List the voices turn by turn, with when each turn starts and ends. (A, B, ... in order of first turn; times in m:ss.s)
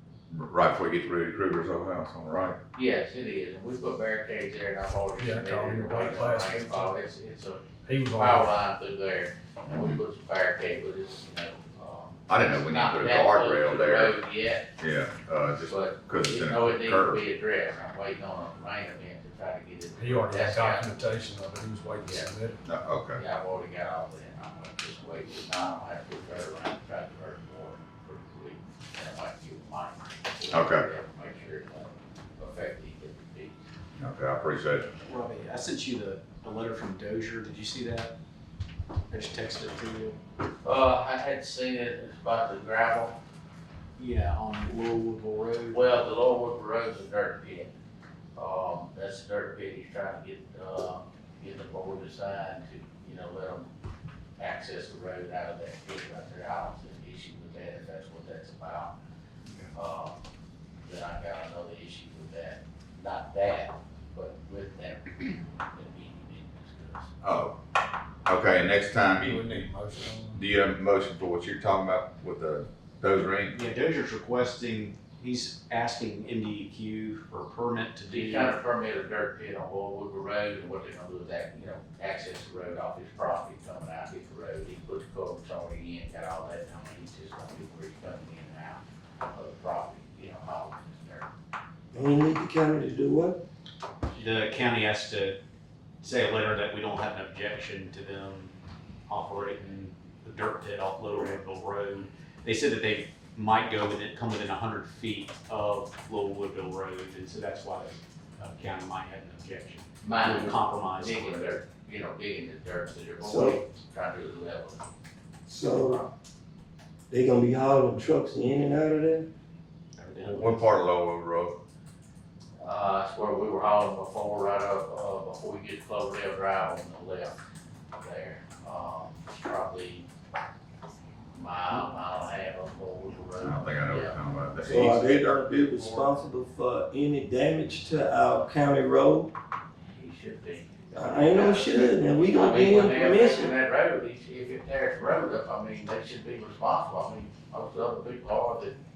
0:00.3-0:02.6 A
0:02.3-0:14.7 B
0:05.2-0:07.0 C
0:07.8-0:08.5 C
0:09.7-0:10.0 A
0:12.3-0:14.2 A
0:14.8-0:17.2 A
0:15.7-0:20.9 B
0:20.0-0:22.6 C
0:22.0-0:22.3 B
0:22.6-0:23.2 A
0:23.1-0:33.6 B
0:30.5-0:30.8 A
0:34.0-0:34.9 A
0:35.0-0:38.1 D
0:39.1-0:40.2 D
0:40.6-0:43.2 B
0:44.0-0:45.9 D
0:45.7-0:47.7 B
0:48.4-0:53.7 B
0:54.4-0:58.9 B
0:59.7-1:00.2 B
1:00.8-1:07.1 B
1:07.2-1:07.5 A
1:08.2-1:09.6 A
1:09.1-1:10.5 C
1:10.3-1:13.6 A
1:13.5-1:18.6 D
1:18.0-1:31.3 B
1:31.9-1:33.4 E
1:34.1-1:35.4 D
1:36.0-1:51.5 D
1:50.0-1:54.8 B
1:53.2-1:53.6 E
1:55.5-1:56.0 E
1:55.7-1:56.1 B
1:57.1-1:59.3 E
2:00.0-2:00.7 D
2:00.3-2:01.6 A
2:02.6-2:07.4 B
2:08.0-2:10.1 B
2:11.3-2:14.2 B
2:13.4-2:15.3 A
2:14.6-2:19.3 E
2:19.9-2:28.7 B
2:20.9-2:23.5 E